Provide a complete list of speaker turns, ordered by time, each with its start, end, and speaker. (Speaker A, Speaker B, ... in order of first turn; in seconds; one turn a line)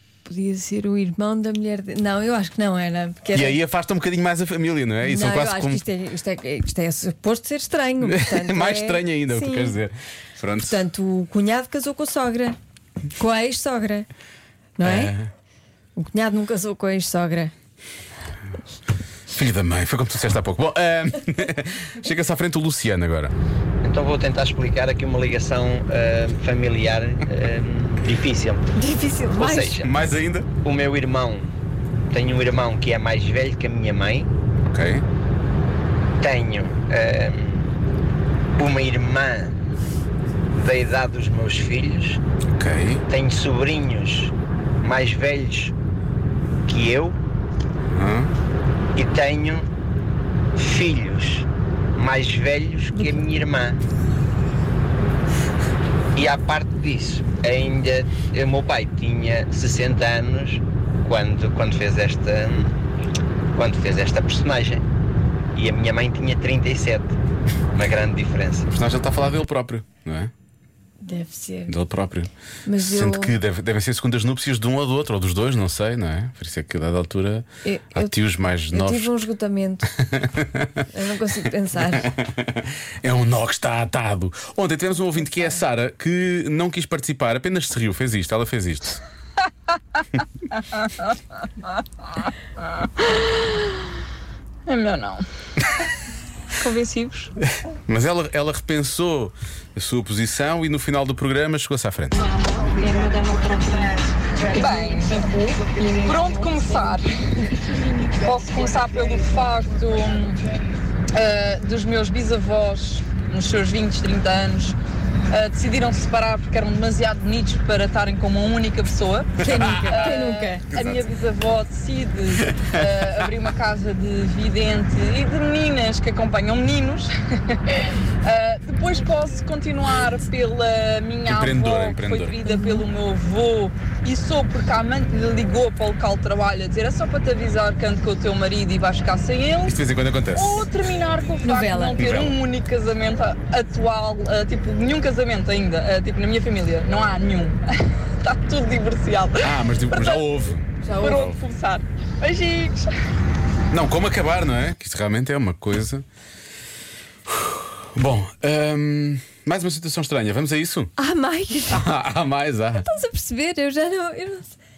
Speaker A: 0.2-3.6
Speaker B: 3.3-5.8
Speaker A: 5.0-9.8
Speaker B: 8.0-10.8
Speaker A: 10.7-12.6
Speaker A: 13.2-14.1
Speaker A: 14.8-15.1
Speaker B: 14.8-15.3
Speaker A: 16.0-17.5
Speaker B: 19.3-23.3
Speaker C: 23.8-28.6
Speaker A: 28.8-29.8
Speaker C: 29.4-29.9
Speaker B: 29.4-30.5
Speaker C: 30.6-31.5
Speaker C: 32.1-34.3
Speaker B: 34.7-35.1
Speaker C: 36.2-37.7
Speaker C: 38.6-39.5
Speaker C: 40.5-42.2
Speaker B: 42.5-43.0
Speaker C: 43.1-45.7
Speaker C: 46.7-47.2
Speaker B: 47.9-48.3
Speaker C: 49.0-49.7
Speaker C: 50.6-53.8
Speaker C: 56.1-62.7
Speaker C: 63.5-64.8
Speaker C: 65.5-67.2
Speaker C: 67.7-68.7
Speaker B: 68.7-70.3
Speaker A: 71.0-71.8
Speaker B: 71.7-79.1
Speaker A: 72.7-73.3
Speaker A: 77.6-78.2
Speaker A: 78.7-79.9
Speaker B: 80.0-80.9
Speaker A: 80.9-82.1
Speaker B: 81.8-89.0
Speaker D: 94.7-95.2
Speaker D: 96.6-97.3
Speaker B: 97.9-102.3
Speaker D: 102.8-104.0
Speaker D: 104.5-107.5
Speaker D: 108.1-110.4
Speaker D: 111.1-114.8
Speaker D: 115.3-139.8
Speaker A: 119.4-120.6
Speaker B: 119.4-120.1
Speaker B: 120.7-121.1
Speaker B: 122.5-122.9
Speaker B: 131.3-132.4
Speaker A: 132.5-132.8
Speaker B: 139.7-140.7
Speaker D: 140.3-150.2
Speaker A: 141.4-142.1
Speaker B: 142.0-142.4
Speaker B: 149.4-151.3
Speaker A: 150.8-151.3
Speaker D: 150.9-152.9
Speaker B: 153.7-156.1
Speaker B: 157.3-160.9
Speaker A: 161.0-161.9
Speaker B: 161.7-162.9
Speaker A: 162.8-164.6